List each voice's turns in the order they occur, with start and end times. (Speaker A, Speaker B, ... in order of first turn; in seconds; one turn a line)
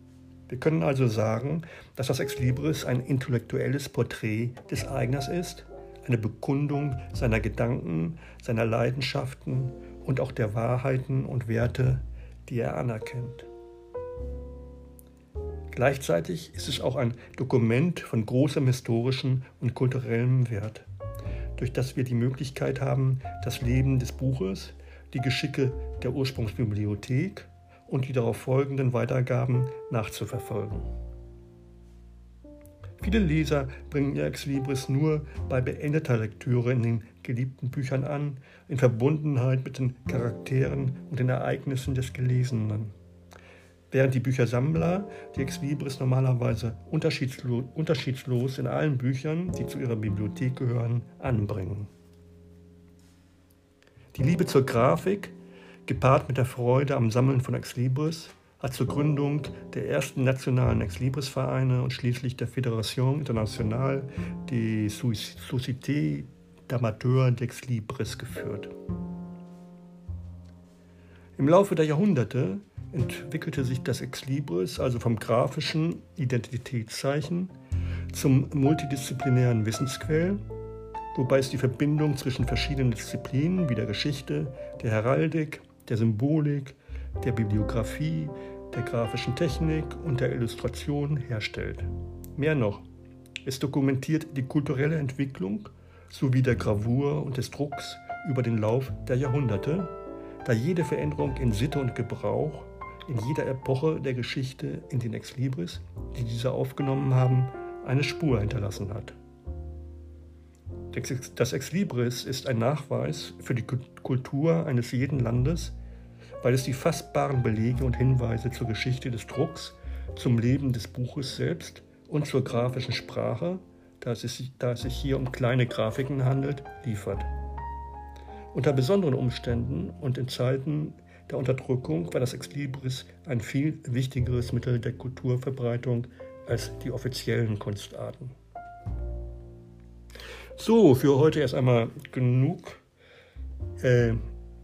Speaker A: 0.5-13.5
Speaker A: 15.7-20.9
Speaker A: 21.6-30.9
Speaker A: 33.0-42.9
Speaker A: 43.9-51.9
Speaker A: 54.1-68.7
Speaker A: 71.4-77.5
Speaker A: 78.1-80.4
Speaker A: 81.1-92.8
Speaker A: 93.4-99.9
Speaker A: 100.4-109.2
Speaker A: 110.9-115.8
Speaker A: 116.4-127.3
Speaker A: 128.5-138.3
Speaker A: 140.6-142.8
Speaker A: 143.8-144.2